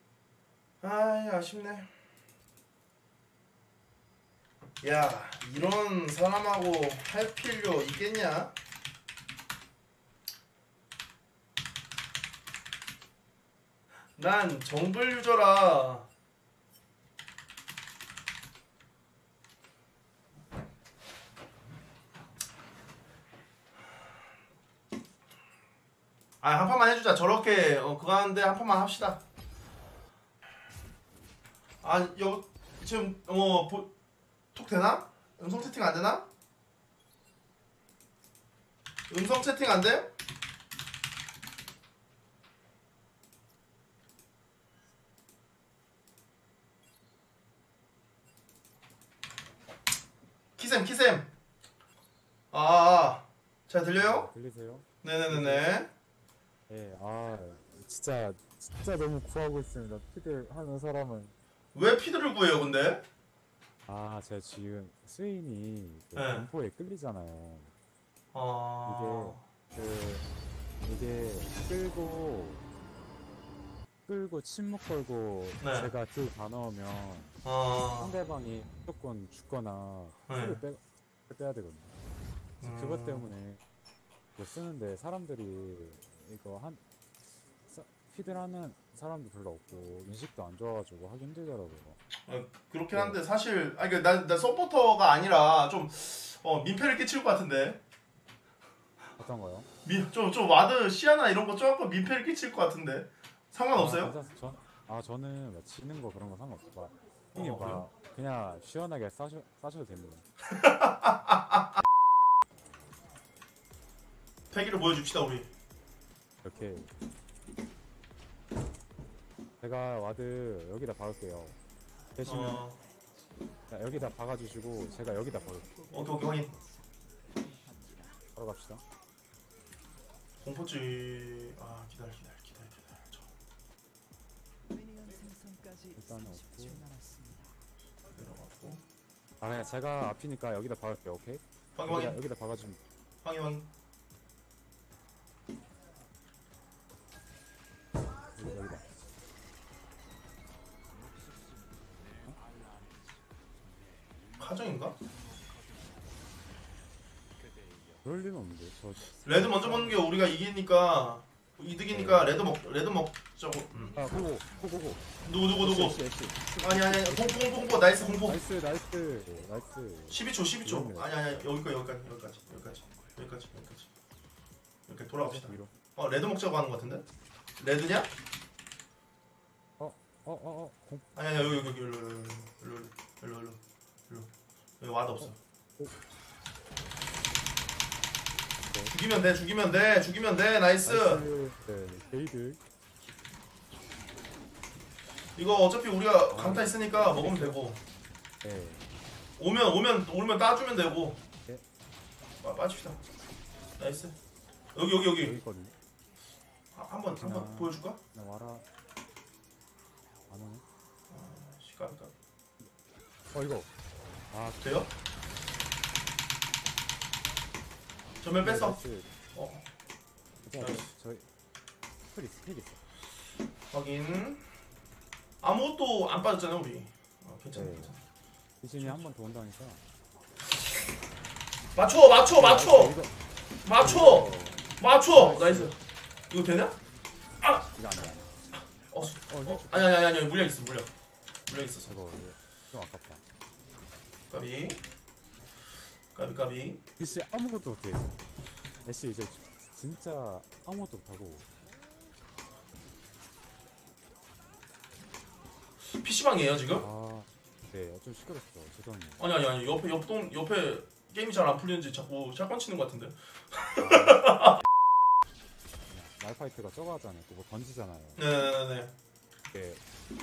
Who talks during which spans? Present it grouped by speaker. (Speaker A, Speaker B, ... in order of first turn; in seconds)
Speaker A: 0.8-1.9, 4.8-8.5, 14.2-16.1, 26.4-29.2, 31.8-33.9, 34.5-36.3, 39.1-40.1, 50.6-51.3, 52.5-54.3, 55.0-55.9, 61.7-63.0, 66.2-66.5, 68.3-69.4, 75.6-75.9, 77.4-78.2, 80.3-80.6, 82.6-83.3, 92.3-97.8, 99.8-104.1, 107.3-107.9, 110.5-111.5, 114.5-115.5, 122.2-122.8, 125.9-126.5, 130.4-133.3, 138.1-138.8, 141.7-142.2, 143.2-143.7, 154.4-155.0, 159.2-164.0, 165.2-166.0, 166.6-168.4, 170.1-173.9, 174.9-177.1, 177.6-178.1, 181.1-185.4, 188.9-191.2, 195.3-197.8, 199.4-201.2, 202.4-203.0, 203.8-204.2, 204.7-205.4, 206.7-208.0, 211.1-212.1, 214.6-214.9, 218.2-218.8, 219.3-219.7, 220.6-220.9, 223.7-224.4, 225.4-228.0, 228.8-229.0, 231.7-233.0, 233.6-235.8, 236.3-236.8, 238.9-240.9, 241.5-241.9, 244.3-244.8, 246.1-246.8, 255.9-256.8, 259.2-264.6, 268.2-268.9
Speaker B: 54.0-55.7, 56.7-61.3, 63.9-67.7, 68.8-70.2, 70.8-72.6, 74.0-77.4, 78.0-81.9, 82.6-83.6, 84.3-86.8, 87.7-92.0, 92.9-93.2, 99.2-99.7, 103.7-110.2, 116.4-116.9, 119.6-121.6, 122.2-122.6, 123.7-125.9, 128.3-128.8, 135.9-136.8, 139.4-142.8, 148.3-148.9, 158.0-160.1, 161.9-162.4, 163.9-171.4, 175.2-175.7, 179.8-181.6, 185.2-185.9, 188.7-188.9, 190.8-192.6, 196.3-197.7, 198.4-198.8, 205.2-205.7, 207.1-208.7, 210.3-210.6, 213.3-213.7, 214.3-214.7, 218.4-219.1, 220.4-221.3, 222.1-222.8, 227.5-227.9, 228.6-229.8, 232.3-233.2, 233.8-235.7, 237.7-238.3, 239.0-239.9, 241.8-243.2, 247.0-248.2, 248.8-251.5, 256.8-259.3, 263.8-264.2, 265.9-268.2, 269.5-269.8
Speaker C: 126.0-126.6, 127.4-128.0, 134.7-137.5